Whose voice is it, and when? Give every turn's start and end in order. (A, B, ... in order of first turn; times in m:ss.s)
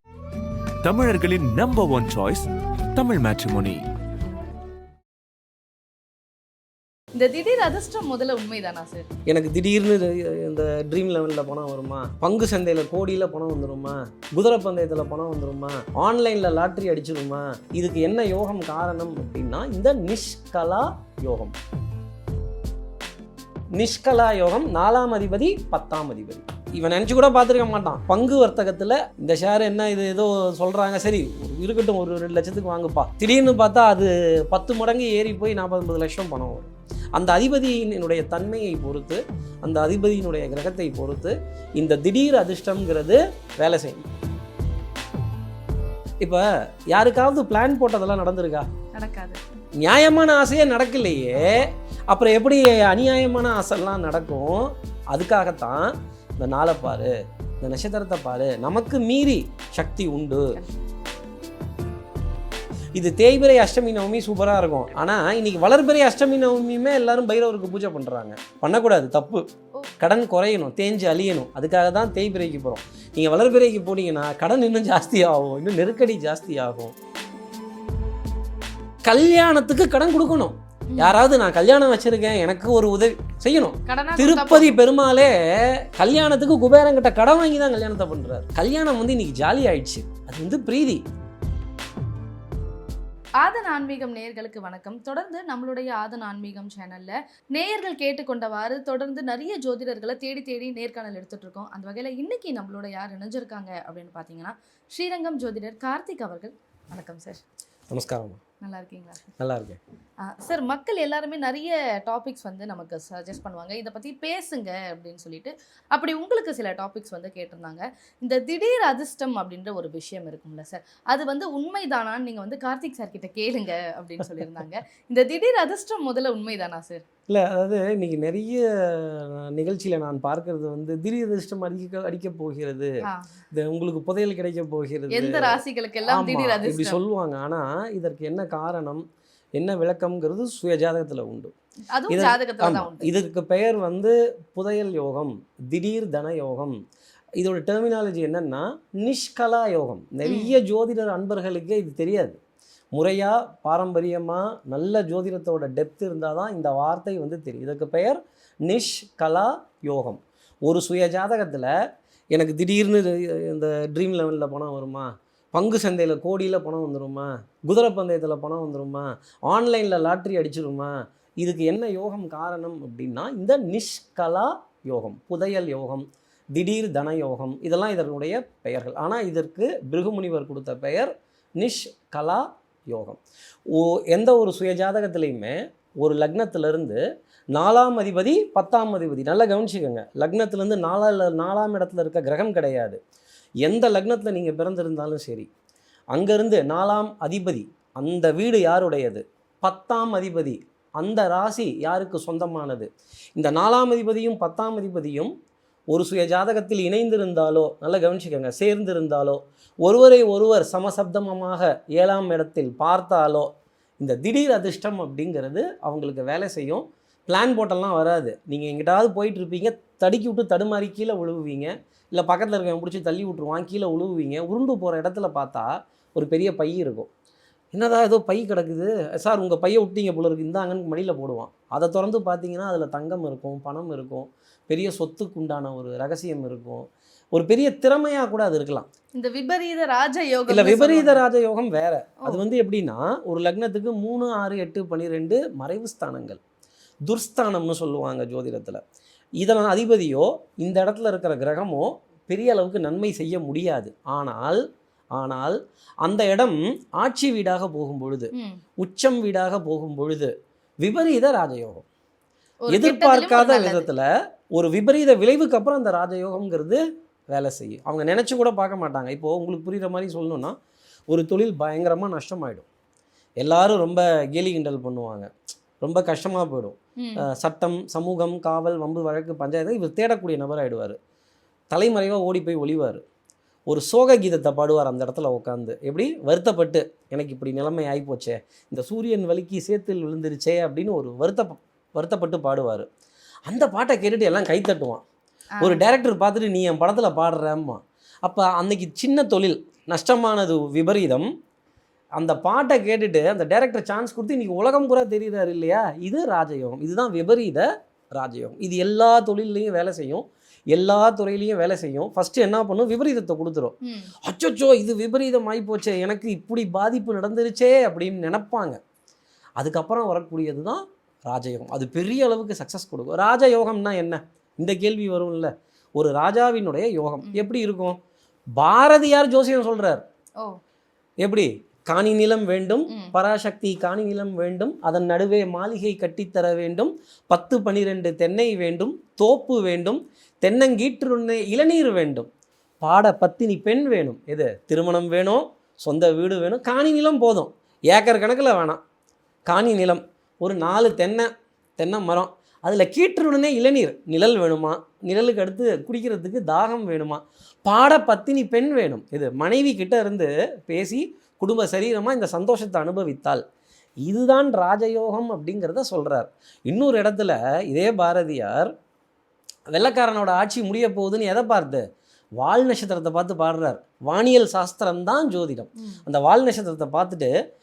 0:00.8-0:03.8 A
0:07.1-0:09.1 B
0:09.3-0:21.5 C
0:23.7-0:44.0 C
0:46.2-0:48.6 C
0:48.9-0:49.4 B
0:49.8-1:00.5 C
1:02.9-1:09.4 C
1:10.0-1:16.9 C
1:19.0-1:31.0 C
1:20.9-1:21.2 B
1:23.8-1:24.8 B
1:33.4-1:47.4 B
1:47.9-1:48.4 C
1:48.6-1:49.3 B
1:49.4-1:49.8 C
1:50.2-2:07.0 B
2:04.2-2:04.6 C
2:07.3-2:12.9 C
2:13.5-2:19.0 C
2:15.1-2:17.0 B
2:19.6-2:21.5 C
2:21.9-2:23.1 B
2:22.1-2:26.8 C
2:27.4-2:32.4 C
2:30.2-2:30.6 B
2:32.9-2:41.7 C
2:42.3-3:07.0 C
3:07.5-3:13.0 C
3:13.6-3:15.5 C
3:16.1-3:25.3 C
3:25.9-3:33.5 C
3:34.0-3:47.1 C
3:47.7-3:58.9 C
3:59.2-4:01.2 B
4:00.5-4:06.4 C
4:07.1-4:08.8 C
4:09.4-4:14.6 C
4:15.1-4:20.3 C
4:18.3-4:18.6 B
4:20.8-4:21.8 C
4:22.6-4:23.9 B
4:22.7-4:30.5 C
4:31.1-4:32.6 C
4:33.4-4:41.0 C
4:37.0-4:37.2 B
4:41.7-4:43.0 C
4:43.7-4:52.9 C
4:53.5-4:55.0 C
4:55.6-4:55.9 B
4:55.6-5:01.3 C
5:02.2-5:13.7 C
5:13.8-5:14.1 B
5:14.2-5:18.8 C
5:19.6-5:28.0 C
5:27.2-5:27.5 B
5:28.6-5:30.0 C
5:31.2-5:42.3 C
5:32.9-5:33.1 B
5:42.8-5:48.8 C
5:49.5-6:03.4 C
6:04.0-6:08.7 C
6:09.7-6:11.8 C
6:12.4-6:17.3 C